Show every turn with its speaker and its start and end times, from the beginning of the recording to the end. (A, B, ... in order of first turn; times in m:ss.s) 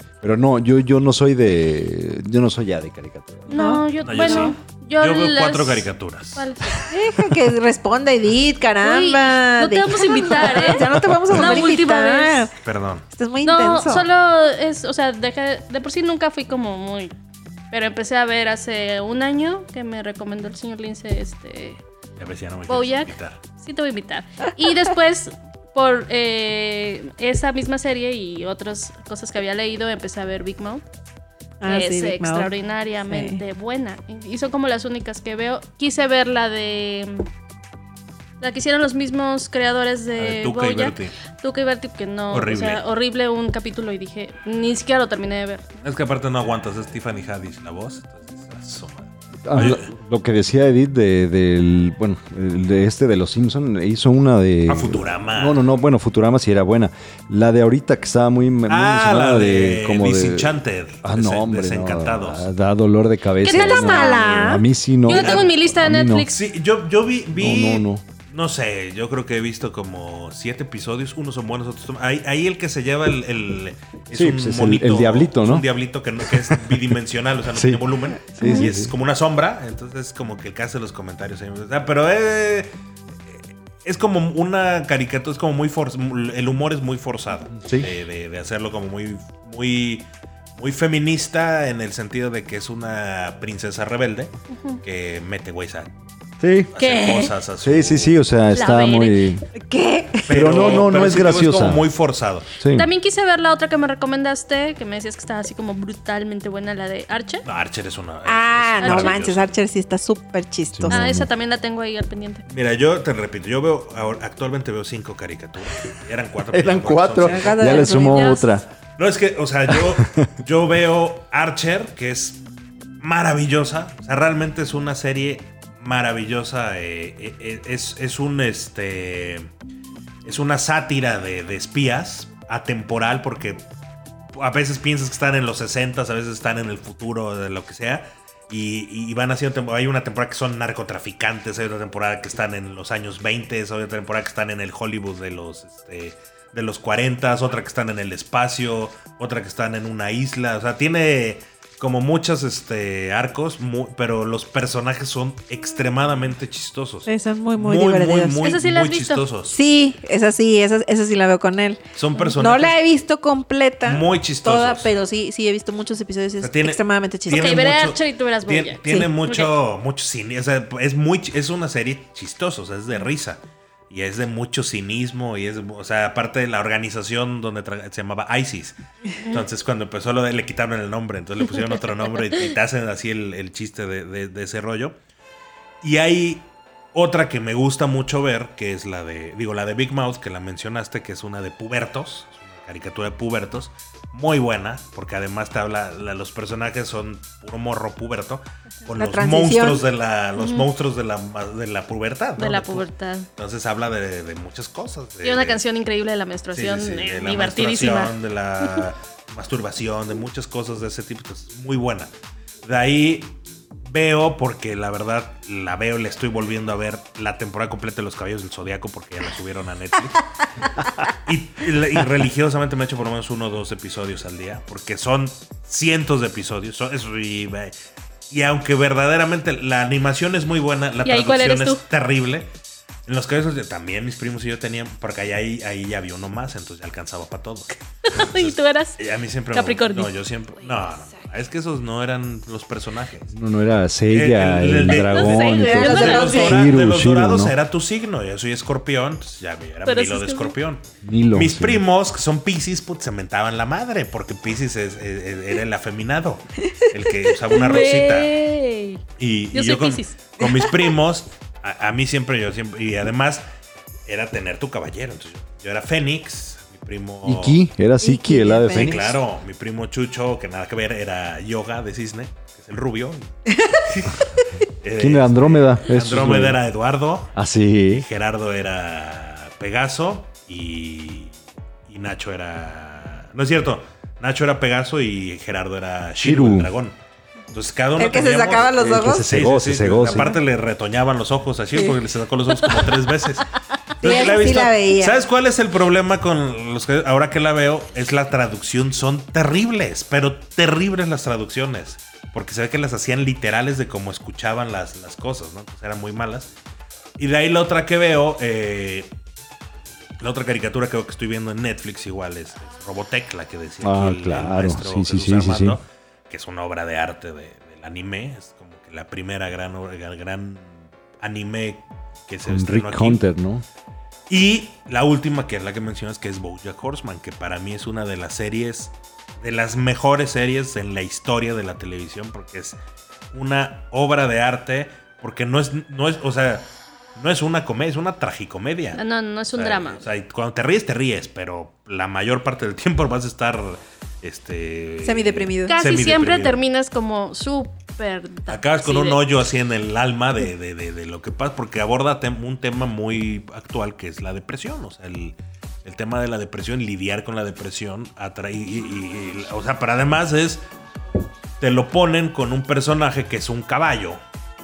0:00.2-0:03.6 A
0:03.5-0:06.8 B
0:03.5-0:04.5 C
0:04.0-0:06.5 D
0:06.8-0:12.5 C
0:08.8-0:12.5 B
0:12.6-0:13.0 D
0:13.1-0:14.1 C
0:13.4-0:17.1 B
0:17.7-0:21.8 B
0:22.2-0:23.4 D
0:22.7-0:30.8 B
0:31.6-0:32.5 C
0:31.6-0:37.3 B
0:33.1-0:33.4 C
0:38.4-0:45.7 B
0:40.2-0:41.2 D
0:42.3-0:42.8 D
0:45.8-0:49.9 D
0:49.4-1:06.3 A
0:54.7-0:55.6 D
0:58.7-1:02.4 D
1:03.4-1:04.5 B
1:03.4-1:04.6 C
1:05.0-1:06.4 B
1:05.1-1:05.5 D
1:06.3-1:22.7 D
1:07.4-1:08.0 A
1:14.1-1:15.6 A
1:16.2-1:16.8 A
1:17.5-1:17.8 A
1:18.4-1:18.9 A
1:23.3-1:34.3 D
1:27.6-1:27.9 A
1:34.5-1:34.8 B
1:34.8-1:35.9 D
1:36.4-1:36.7 A
1:36.7-1:38.2 D
1:36.8-1:37.3 B
1:37.6-1:39.4 A
1:38.5-1:39.3 B
1:39.5-1:40.5 C
1:40.3-1:42.5 D
1:40.3-1:41.8 A
1:42.6-1:42.9 A
1:42.7-1:47.4 B
1:47.4-1:49.5 D
1:48.2-1:51.0 C
1:48.8-1:49.2 B
1:50.7-1:51.3 A
1:50.9-1:52.4 B
1:52.5-1:57.8 D
1:56.5-1:58.6 A
1:57.2-1:58.4 C
1:57.6-1:58.6 B
1:59.0-2:02.4 D
1:59.7-2:00.3 A
2:03.0-2:09.5 D
2:10.2-2:13.6 D
2:14.4-2:39.6 D
2:37.0-2:38.4 C
2:38.4-2:39.2 B
2:39.5-2:41.8 C
2:41.9-2:42.7 D
2:42.3-2:47.6 C
2:43.8-2:44.9 D
2:46.4-3:05.0 D
2:47.3-2:49.5 B
3:05.8-3:22.8 D
3:18.9-3:19.8 C
3:20.4-3:20.7 B
3:22.4-3:23.3 B
3:23.4-3:25.6 D
3:25.2-3:28.8 B
3:26.5-3:32.1 D
3:32.6-3:33.3 D
3:33.8-3:47.7 D
3:48.3-3:52.5 D
3:51.0-3:51.8 B
3:53.0-4:03.3 D
3:58.1-3:59.0 B
3:59.5-4:00.1 B
4:03.3-4:07.5 A
4:04.1-4:18.3 D
4:04.8-4:06.6 B
4:05.5-4:06.4 C
4:09.8-4:10.5 B
4:11.0-4:11.8 A
4:17.5-4:19.0 B
4:19.2-4:23.4 D
4:19.5-4:20.2 B
4:24.0-4:27.6 D
4:27.2-4:29.2 A
4:28.0-4:29.0 C
4:28.7-4:33.3 D
4:33.5-4:33.8 C
4:33.8-4:34.3 D
4:34.8-4:37.3 D
4:35.0-4:36.6 A
4:37.3-4:38.0 A
4:37.9-4:41.3 D
4:41.9-4:47.0 D
4:46.2-4:46.7 A
4:47.5-4:53.5 D
4:48.0-4:49.3 C
4:48.7-4:50.3 A
4:54.0-4:55.2 C
4:54.0-5:06.5 D
4:54.0-4:54.3 B
5:07.2-5:09.1 D
5:10.2-5:23.2 D
5:13.8-5:15.8 A
5:22.4-5:23.6 A
5:24.3-5:32.8 D
5:33.3-5:39.0 D
5:38.9-5:40.0 B
5:39.5-5:46.6 D
5:45.0-5:45.8 C
5:45.7-5:49.2 B
5:48.5-6:00.6 D
6:01.6-6:04.2 D